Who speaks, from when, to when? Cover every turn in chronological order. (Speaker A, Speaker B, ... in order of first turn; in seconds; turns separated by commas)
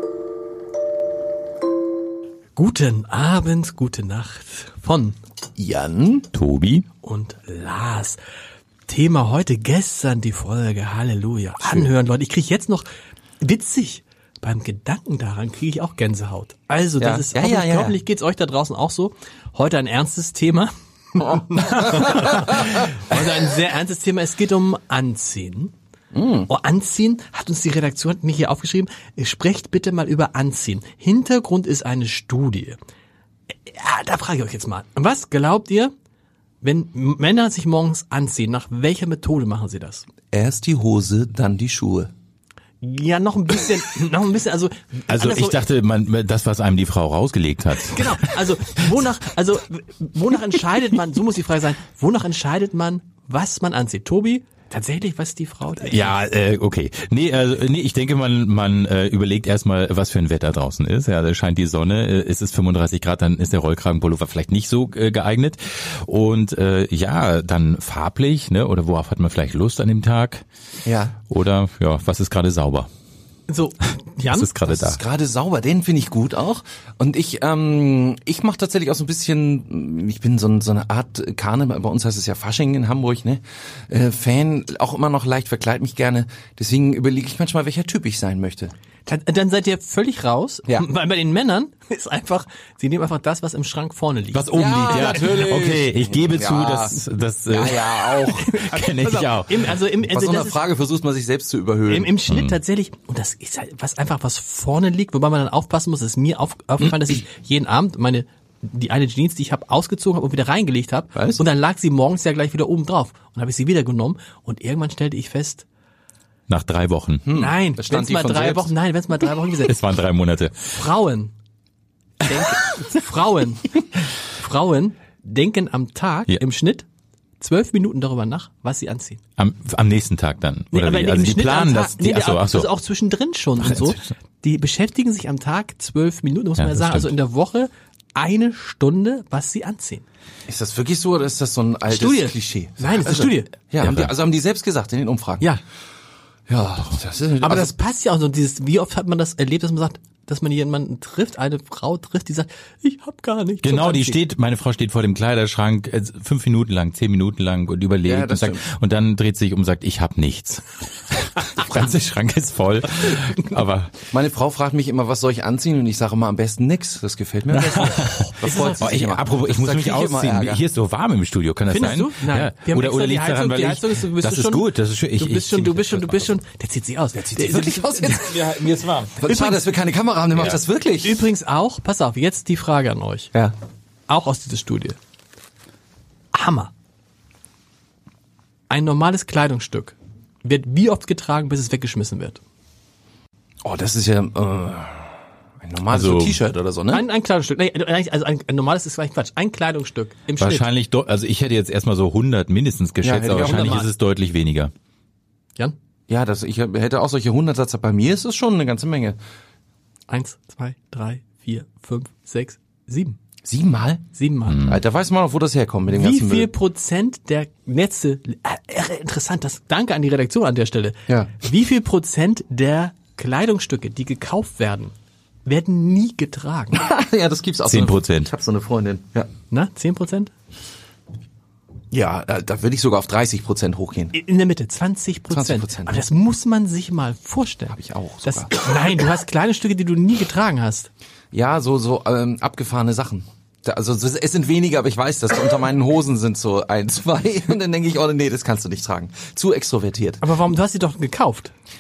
Speaker A: 2.6-5.2, Speaker B: 5.6-6.3, Speaker C: 6.3-6.8, Speaker A: 7.0-8.2, Speaker A: 8.9-12.9, Speaker B: 11.6-11.9, Speaker A: 13.4-25.7, Speaker B: 17.0-18.0, Speaker B: 26.1-26.5, Speaker A: 26.5-32.8, Speaker A: 33.6-35.9, Speaker A: 36.6-40.1, Speaker B: 40.3-42.1, Speaker A: 42.8-45.6, Speaker C: 45.1-48.4, Speaker A: 47.8-56.1, Speaker C: 55.8-70.4, Speaker B: 70.8-71.2, Speaker C: 71.3-72.9, Speaker A: 73.5-74.5, Speaker C: 74.3-75.0, Speaker B: 74.7-88.7, Speaker A: 89.1-95.0, Speaker C: 94.3-99.7, Speaker B: 94.5-97.0, Speaker B: 97.5-98.5, Speaker A: 98.3-100.6, Speaker B: 100.0-102.2, Speaker A: 101.9-115.7, Speaker C: 102.3-102.6, Speaker B: 106.8-107.1, Speaker B: 111.1-111.5, Speaker C: 116.5-117.3, Speaker B: 117.2-118.7, Speaker A: 117.3-119.8, Speaker C: 119.7-120.6, Speaker A: 120.7-121.3, Speaker A: 122.2-123.8, Speaker A: 124.3-126.9, Speaker A: 127.4-129.2, Speaker C: 129.4-132.7, Speaker A: 130.7-140.0, Speaker C: 133.6-134.1, Speaker C: 136.6-137.1, Speaker B: 140.5-145.5, Speaker A: 141.9-143.5, Speaker C: 143.8-144.1, Speaker B: 146.5-147.8, Speaker A: 147.4-154.2, Speaker C: 153.6-164.0, Speaker B: 158.1-158.6, Speaker B: 164.1-170.6, Speaker C: 167.6-176.4, Speaker A: 168.4-168.8, Speaker A: 171.7-178.4, Speaker B: 177.2-178.4, Speaker C: 178.1-179.2, Speaker B: 179.2-181.2, Speaker A: 179.2-179.6, Speaker A: 181.0-183.3, Speaker A: 184.1-185.0, Speaker A: 186.3-186.7, Speaker A: 188.7-192.4, Speaker B: 193.6-195.1, Speaker B: 195.6-197.1, Speaker C: 195.9-196.5, Speaker A: 196.9-200.7, Speaker C: 200.4-204.7, Speaker B: 203.0-203.8, Speaker A: 203.4-203.9, Speaker B: 206.1-209.2, Speaker A: 210.1-213.2, Speaker B: 213.4-214.1, Speaker A: 214.2-214.6, Speaker C: 214.5-214.8, Speaker B: 214.7-216.5, Speaker A: 215.9-224.9, Speaker B: 221.1-221.4, Speaker A: 225.4-226.8, Speaker B: 226.7-229.3, Speaker C: 227.7-228.3, Speaker A: 229.5-230.3, Speaker B: 231.9-234.2, Speaker A: 234.1-240.9, Speaker B: 235.3-236.1, Speaker B: 237.7-238.6, Speaker B: 241.3-250.2, Speaker A: 250.2-251.5